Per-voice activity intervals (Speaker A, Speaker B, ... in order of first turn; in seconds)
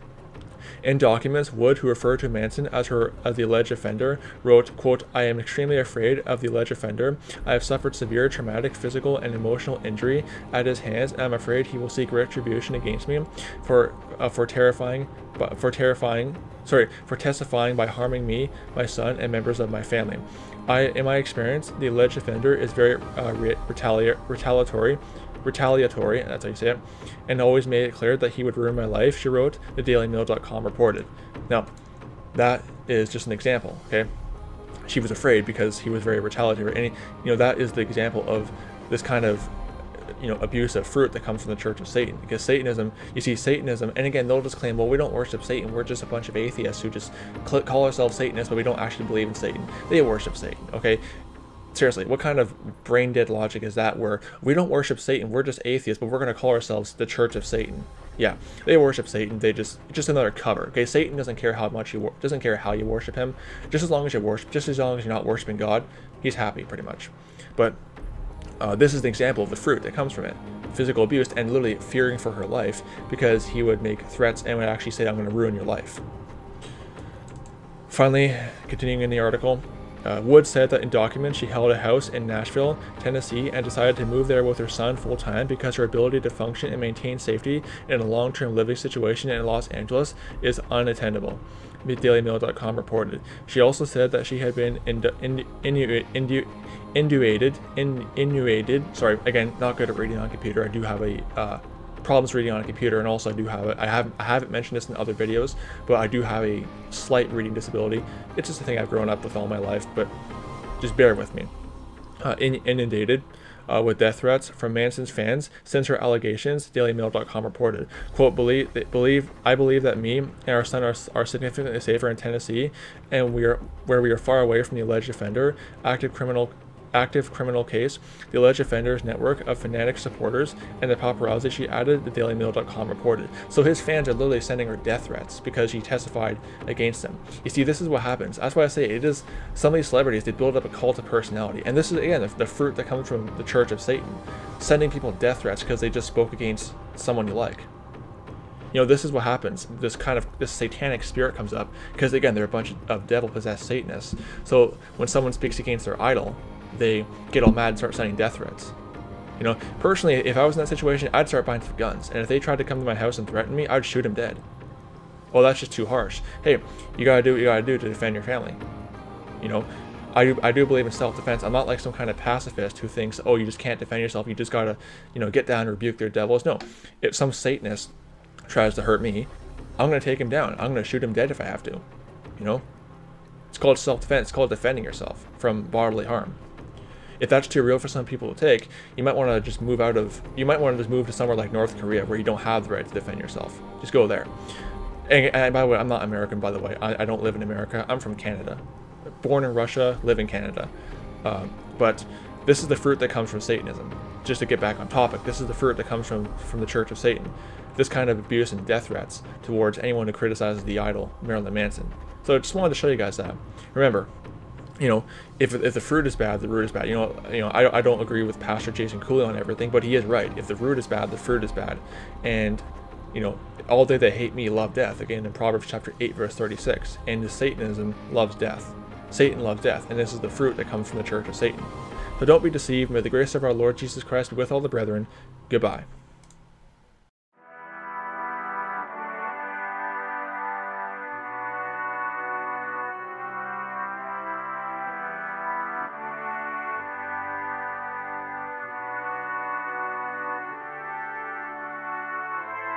Speaker A: 0.8-31.7, 32.3-34.1, 34.9-51.0, 51.7-67.8, 68.6-76.0, 77.9-110.1, 110.8-111.5, 112.2-147.7, 148.7-158.7, 159.4-164.4, 165.3-168.6, 169.4-177.9, 178.5-181.8, 182.4-182.6, 183.5-186.4, 187.2-194.3, 195.1-198.6, 199.2-200.7, 201.2-214.1, 214.8-235.9